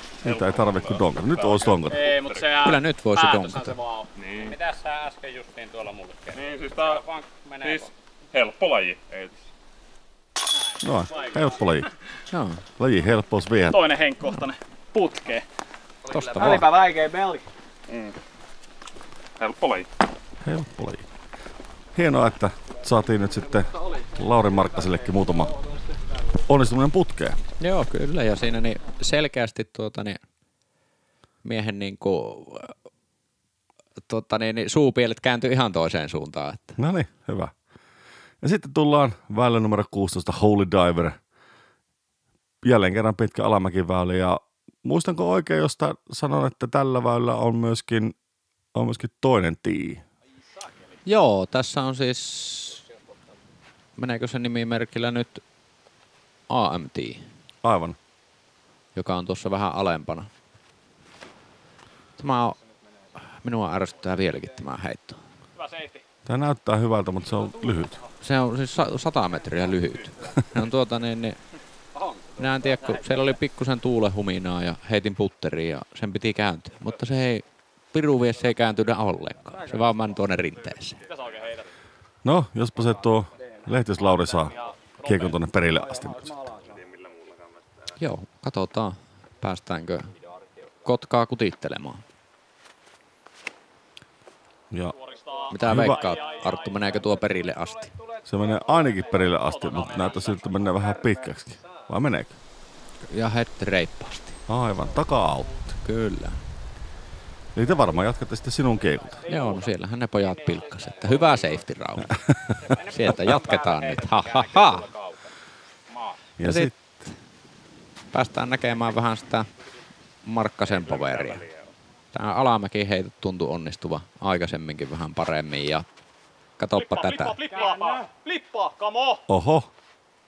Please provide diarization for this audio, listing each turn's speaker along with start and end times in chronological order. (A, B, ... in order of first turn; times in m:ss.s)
0:00.2-0:02.2 A
0:00.2-0:02.6 B
0:01.9-0:04.1 C
0:02.5-0:03.8 D
0:04.2-0:04.5 B
0:04.3-0:07.9 E
0:06.3-0:07.0 B
0:07.6-0:09.3 B
0:10.8-0:11.9 A
0:11.1-0:11.4 C
0:12.3-0:12.6 D
0:12.8-0:13.9 A
0:13.6-0:15.4 C
0:16.1-0:16.7 E
0:16.1-0:16.8 D
0:16.3-0:17.4 F
0:17.9-0:18.1 B
0:19.4-0:19.9 B
0:20.4-0:21.1 A
0:21.9-0:25.6 A
0:23.0-0:26.4 F
0:26.4-0:27.4 A
0:27.6-0:30.2 D
0:31.4-0:32.7 D
0:34.0-0:36.8 D
0:36.8-0:37.5 A
0:38.4-0:41.2 A
0:42.6-0:48.1 A
0:48.7-0:50.0 A
0:51.0-0:52.8 D
0:54.0-0:55.4 D
0:56.5-0:57.2 D
0:57.6-0:58.0 A
0:59.0-1:00.3 D
1:02.2-1:02.6 D
1:03.2-1:05.2 D
1:05.6-1:06.0 C
1:06.2-1:08.0 A
1:08.2-1:11.4 D
1:12.0-1:12.3 E
1:12.4-1:21.0 D
1:19.5-1:20.2 F
1:21.0-1:21.7 C
1:22.2-1:26.4 A
1:23.4-1:24.6 F
1:24.4-1:25.3 C
1:25.7-1:26.8 F
1:26.6-1:27.9 B
1:28.0-1:30.1 D
1:30.1-1:30.9 E
1:30.8-1:32.0 D
1:34.9-1:41.4 C
1:35.5-1:37.9 D
1:35.6-1:36.0 A
1:38.3-1:42.4 A
1:43.1-1:44.4 D
1:44.5-1:45.6 A
1:45.8-1:46.4 D
1:47.5-1:49.2 A
1:49.1-1:49.7 C
1:49.2-1:52.2 D
1:50.5-1:51.5 E
1:50.7-1:51.1 C
1:52.2-1:52.7 A
1:52.6-1:55.3 E
1:52.7-1:54.9 D
1:55.9-1:56.2 E
1:56.4-1:56.7 A
1:56.4-1:57.2 D
1:58.1-1:59.5 D
2:00.2-2:01.4 D
2:00.6-2:01.7 B
2:02.1-2:05.9 D
2:06.6-2:07.4 D
2:06.7-2:09.2 C
2:07.5-2:08.1 F
2:09.3-2:09.7 A